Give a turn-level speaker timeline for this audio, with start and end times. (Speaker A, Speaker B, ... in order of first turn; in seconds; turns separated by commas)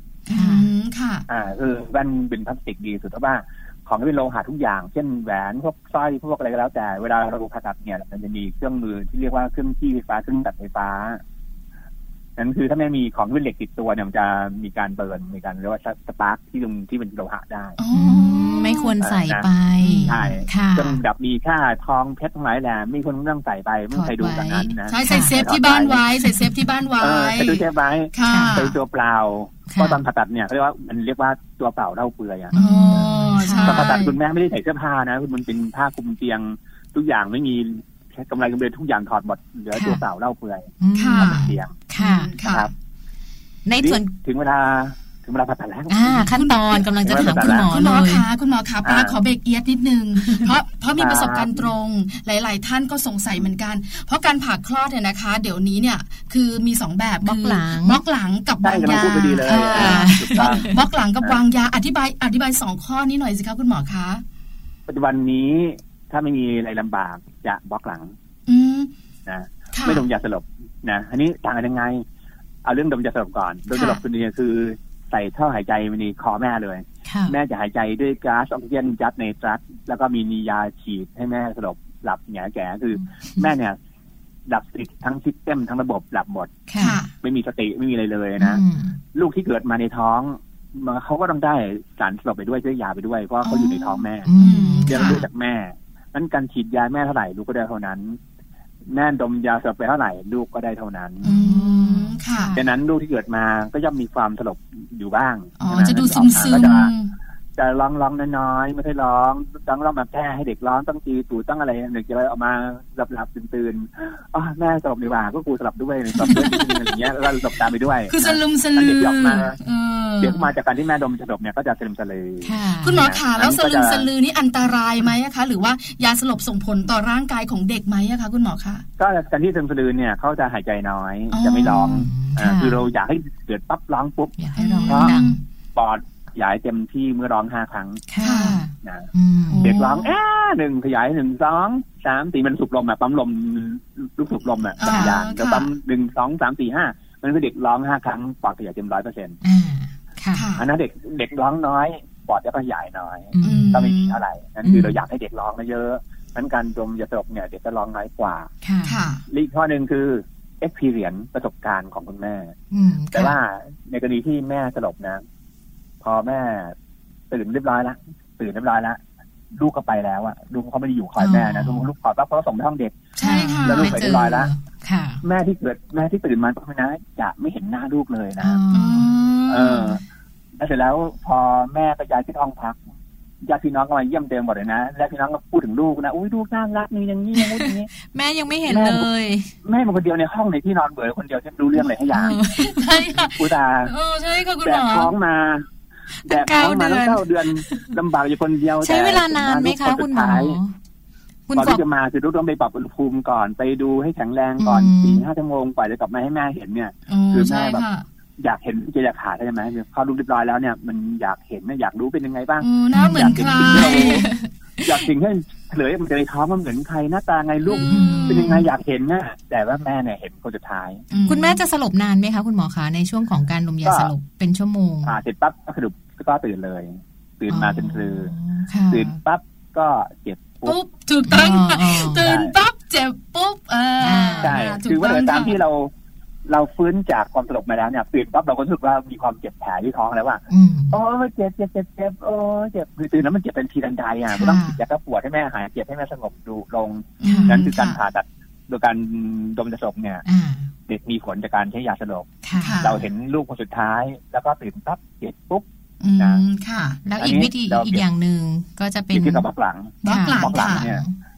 Speaker A: 0.3-1.2, Speaker B: 0.3-0.7, Speaker C: 1.3-11.2, Speaker C: 12.4-17.8, Speaker A: 17.8-18.9, Speaker B: 17.9-21.0, Speaker C: 19.0-19.5, Speaker A: 19.8-20.2, Speaker C: 20.0-26.0, Speaker B: 23.9-25.3, Speaker A: 24.9-28.8, Speaker C: 27.0-41.8, Speaker B: 28.3-28.6, Speaker B: 29.7-30.0, Speaker B: 32.5-33.9, Speaker A: 32.5-34.2, Speaker B: 39.7-40.0, Speaker B: 40.8-42.3, Speaker A: 40.9-42.7, Speaker C: 42.4-42.7, Speaker B: 43.6-44.1, Speaker C: 43.8-46.3, Speaker B: 45.9-48.2, Speaker A: 46.3-64.2, Speaker C: 47.0-47.7, Speaker C: 48.8-49.2, Speaker B: 50.2-50.5, Speaker C: 51.0-51.6, Speaker B: 57.2-58.0, Speaker C: 58.6-61.4, Speaker B: 59.4-60.8, Speaker C: 64.9-68.1, Speaker A: 68.5-68.9, Speaker C: 69.2-72.0, Speaker A: 69.7-70.0, Speaker C: 72.6-83.8, Speaker A: 73.7-74.0, Speaker B: 77.1-77.3, Speaker C: 84.5-86.5, Speaker B: 86.7-87.0, Speaker A: 86.8-87.1, Speaker C: 87.1-88.6, Speaker B: 88.4-89.0, Speaker C: 89.1-94.3, Speaker B: 93.4-95.2, Speaker A: 93.6-95.2, Speaker C: 94.8-98.2, Speaker C: 98.9-101.3, Speaker A: 101.2-102.5, Speaker B: 101.2-102.7, Speaker C: 102.5-106.9, Speaker A: 105.6-107.1, Speaker C: 107.5-119.6, Speaker A: 116.2-116.8, Speaker A: 118.1-120.5, Speaker C: 120.2-124.1, Speaker B: 122.4-123.0, Speaker A: 122.8-128.8, Speaker C: 129.0-135.2, Speaker A: 131.3-132.0, Speaker B: 131.6-132.8, Speaker B: 134.4-135.3, Speaker A: 134.6-135.4, Speaker C: 135.7-138.0, Speaker B: 138.1-139.8, Speaker A: 138.2-138.6, Speaker C: 138.8-139.1, Speaker A: 139.5-140.1, Speaker C: 139.6-149.4, Speaker A: 144.8-145.7, Speaker B: 144.8-145.1, Speaker B: 149.4-150.5, Speaker A: 150.3-150.7, Speaker C: 150.6-158.5, Speaker B: 153.3-153.7, Speaker A: 153.4-154.2, Speaker B: 154.6-155.0, Speaker B: 158.6-159.0, Speaker A: 158.8-159.2, Speaker C: 159.3-162.5, Speaker B: 162.7-163.4, Speaker C: 163.1-165.2, Speaker C: 166.0-166.7, Speaker C: 167.3-169.0, Speaker C: 169.6-173.0, Speaker B: 171.2-171.9, Speaker A: 173.2-174.0, Speaker B: 173.2-175.2, Speaker C: 173.6-174.5, Speaker C: 175.2-178.6, Speaker B: 178.4-179.1, Speaker A: 178.7-180.0, Speaker C: 179.5-180.0, Speaker C: 180.6-182.8, Speaker C: 183.4-187.9, Speaker B: 187.3-189.5, Speaker C: 188.7-189.1, Speaker C: 189.6-192.4, Speaker B: 192.1-193.0, Speaker A: 192.5-195.1, Speaker C: 193.3-193.9, Speaker C: 194.6-195.7, Speaker C: 196.2-200.6, Speaker B: 196.3-197.9, Speaker B: 198.8-200.7, Speaker B: 201.5-201.8, Speaker C: 201.5-207.8, Speaker B: 204.6-205.2, Speaker A: 207.1-208.0, Speaker C: 208.4-214.3, Speaker A: 212.6-214.2, Speaker B: 212.9-214.9, Speaker C: 214.8-221.0, Speaker A: 217.7-218.6, Speaker B: 217.9-218.7, Speaker A: 221.1-221.6, Speaker B: 221.2-225.1, Speaker C: 223.8-224.1, Speaker C: 225.0-228.3, Speaker B: 227.5-229.2, Speaker C: 228.9-230.8, Speaker A: 230.6-235.6, Speaker B: 231.3-232.3, Speaker C: 232.2-232.5, Speaker B: 234.0-234.6, Speaker C: 234.4-235.9, Speaker C: 236.4-250.2, Speaker B: 240.5-240.9, Speaker B: 244.3-244.8, Speaker A: 247.2-247.9, Speaker B: 247.2-247.9, Speaker B: 250.2-250.7, Speaker C: 250.9-255.6, Speaker B: 252.4-252.8, Speaker A: 252.6-253.0, Speaker A: 256.0-257.0, Speaker C: 256.2-256.4, Speaker B: 257.0-259.5, Speaker C: 257.2-258.0, Speaker C: 259.1-261.0, Speaker A: 260.0-260.9, Speaker B: 260.0-261.1